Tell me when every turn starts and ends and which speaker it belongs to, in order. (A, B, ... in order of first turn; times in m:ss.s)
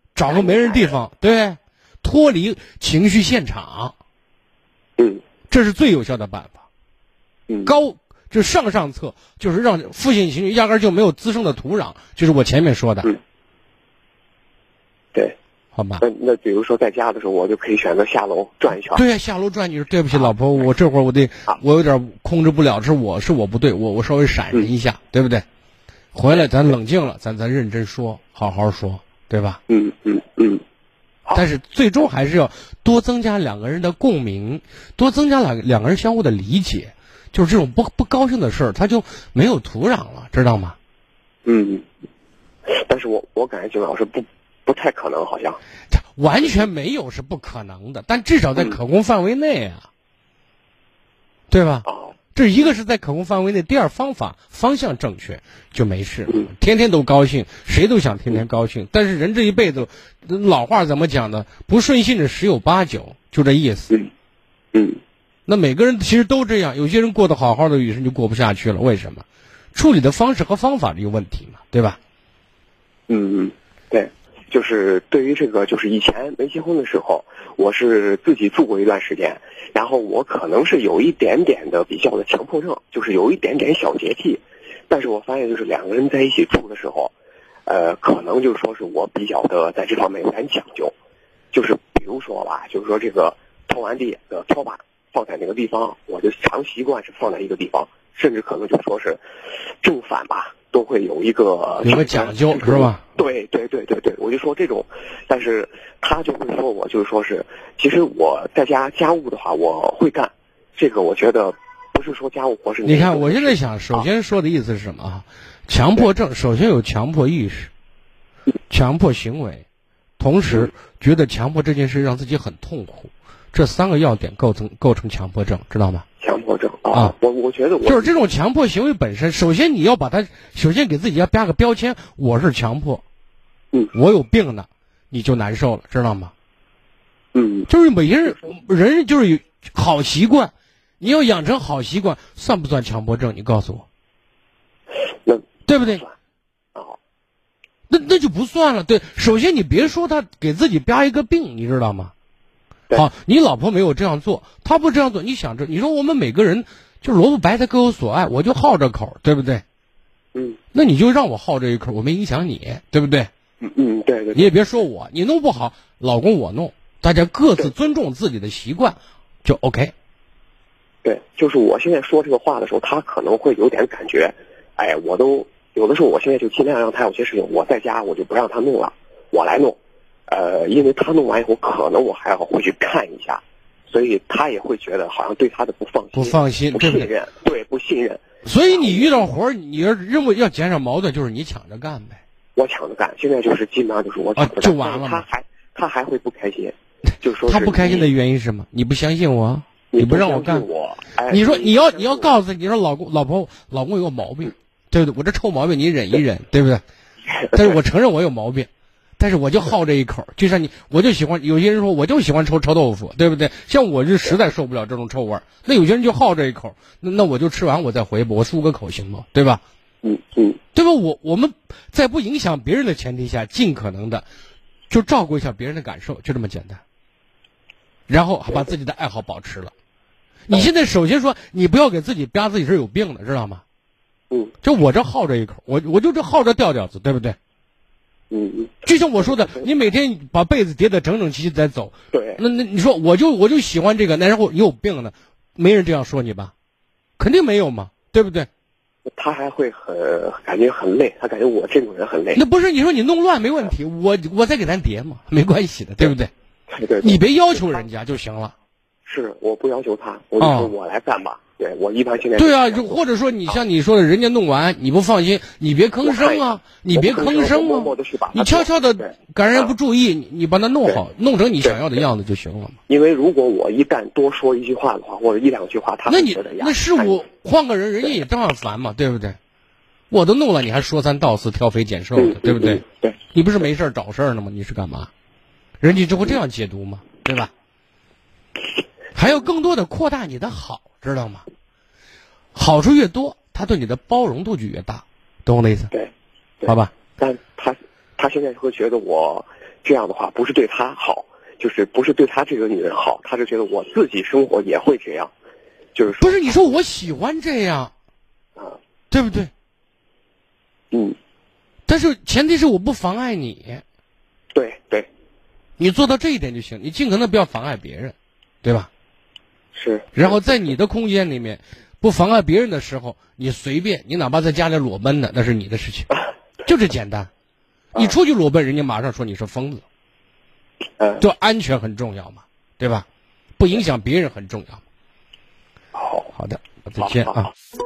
0:00.1-0:03.9 A
0:00.3-0:00.9 B
0:05.5-0:06.6 A
0:07.5-0:07.8 B
0:07.6-0:13.2 A
0:15.7-0:16.0 A
0:16.0-0:19.0 B
0:18.9-0:25.4 A
0:26.1-0:29.6 A
0:26.3-0:26.7 B
0:29.7-0:30.6 B
0:31.3-0:40.8 A
0:41.4-0:41.8 B
0:42.7-0:45.6 B
0:45.9-0:49.9 A
0:51.5-1:03.9 A
0:51.8-0:52.1 B
1:04.7-1:05.0 B
1:05.4-1:12.0 A
1:13.1-1:27.1 B
1:27.7-1:30.9 B
1:31.5-1:39.2 B
1:39.8-1:54.0 B
1:41.8-1:43.0 A
1:52.8-1:57.7 A
1:58.7-1:59.6 A
2:00.2-2:06.0 A
2:06.2-2:08.2 B
2:07.8-2:13.0 A
2:13.9-2:16.3 A
2:17.3-2:17.7 B
2:17.7-2:23.8 A
2:25.2-2:26.1 B
2:25.7-2:26.0 A
2:27.9-2:32.1 A
2:32.9-2:39.6 A
2:40.3-2:40.6 B
2:40.7-2:43.3 A
2:43.6-2:44.5 B
2:44.3-2:49.9 A
2:51.0-3:09.3 B
3:06.1-3:07.1 A
3:08.4-3:12.2 A
3:12.6-3:18.1 B
3:14.4-3:15.2 A
3:17.3-3:20.6 A
3:19.9-3:22.3 B
3:21.3-3:26.8 A
3:27.3-3:27.8 B
3:27.5-3:39.6 A
3:40.0-3:40.6 B
3:40.7-3:44.2 A
3:44.9-3:46.8 A
3:48.1-3:49.7 A
3:50.5-3:53.6 A
3:54.6-3:57.4 A
3:58.3-3:59.7 B
3:58.8-4:06.5 A
4:02.1-4:02.4 B
4:07.2-4:08.5 A
4:09.1-4:12.4 B
4:12.3-4:16.3 A
4:16.7-4:17.8 B
4:17.0-4:18.5 A
4:19.0-4:23.6 B
4:20.4-4:20.7 A
4:22.4-4:32.8 A
4:26.0-4:29.7 B
4:31.6-4:32.0 B
4:32.9-4:37.2 B
4:36.1-4:39.4 A
4:40.1-4:45.1 A
4:42.2-4:43.2 B
4:45.8-4:47.5 A
4:49.1-4:51.4 A
4:52.5-4:55.9 A
4:56.6-5:05.3 B
4:56.6-4:56.9 A
5:05.9-5:06.7 B
5:06.2-5:07.9 A
5:09.1-5:09.5 A
5:10.9-5:11.2 B
5:11.9-5:13.8 A
5:14.5-5:15.1 B
5:15.8-5:18.9 A
5:19.7-5:20.7 B
5:20.1-5:27.3 A
5:28.0-5:29.8 A
5:31.2-5:33.0 A
5:33.6-5:34.8 A
5:35.9-5:36.3 B
5:36.3-5:37.5 A
5:37.0-5:37.5 B